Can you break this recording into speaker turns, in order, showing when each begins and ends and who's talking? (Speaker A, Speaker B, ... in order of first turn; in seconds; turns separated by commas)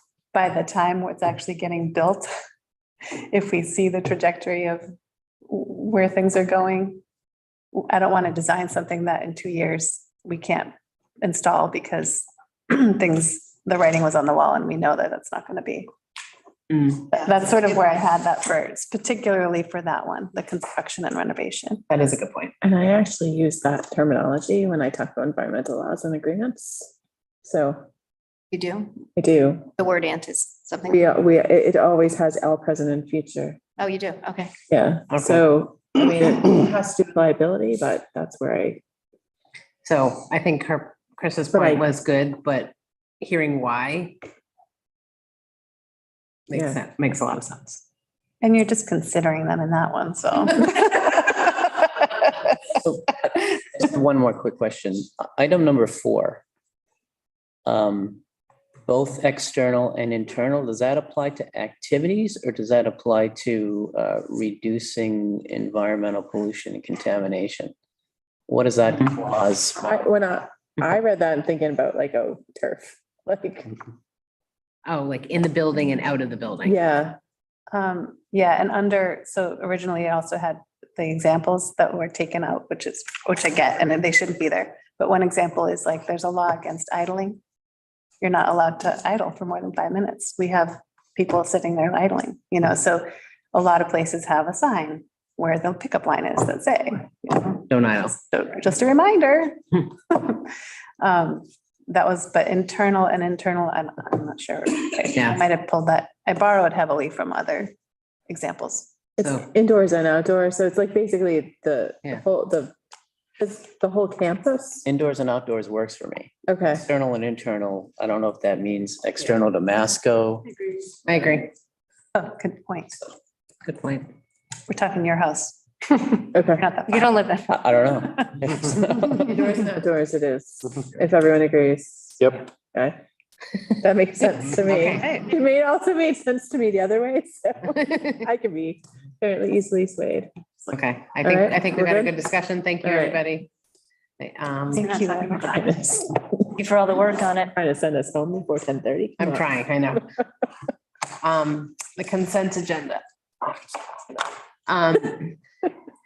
Speaker A: 0.3-2.3, Speaker A: 3.3-4.8, Speaker A: 5.5-7.0, Speaker A: 7.8-15.9, Speaker B: 16.7-17.1, Speaker A: 17.1-21.8, Speaker B: 21.9-22.5, Speaker C: 22.6-26.9, Speaker C: 27.4-27.8, Speaker D: 28.5-28.9, Speaker C: 29.2-29.7, Speaker D: 29.8-31.0, Speaker C: 30.9-33.6, Speaker D: 33.8-34.5, Speaker C: 34.7-38.8, Speaker B: 35.1-35.5, Speaker B: 39.8-44.2, Speaker C: 41.5-41.8, Speaker B: 46.5-47.8, Speaker A: 48.4-51.8, Speaker E: 52.8-56.4, Speaker E: 57.6-58.2, Speaker E: 58.9-67.7, Speaker E: 68.5-69.9, Speaker C: 69.8-73.8, Speaker B: 74.9-76.8, Speaker C: 76.6-77.2, Speaker A: 77.7-87.4, Speaker A: 88.2-107.7, Speaker B: 97.7-98.1, Speaker B: 105.1-105.4, Speaker A: 108.3-108.9, Speaker C: 109.2-112.7, Speaker B: 109.2-109.5, Speaker C: 113.4-114.8, Speaker E: 114.8-120.5, Speaker C: 116.5-116.8, Speaker B: 121.0-121.5, Speaker A: 122.1-123.0, Speaker B: 123.6-124.1, Speaker A: 124.7-127.2, Speaker C: 126.3-126.7, Speaker D: 126.9-127.5, Speaker E: 127.5-129.3, Speaker C: 129.2-133.0, Speaker C: 133.5-140.3, Speaker B: 140.7-143.5, Speaker C: 141.2-142.2, Speaker C: 142.8-143.2, Speaker B: 144.2-144.9, Speaker A: 144.8-145.7, Speaker C: 144.9-146.6, Speaker D: 146.6-147.5, Speaker C: 147.5-149.4, Speaker B: 149.2-150.1, Speaker B: 151.2-155.4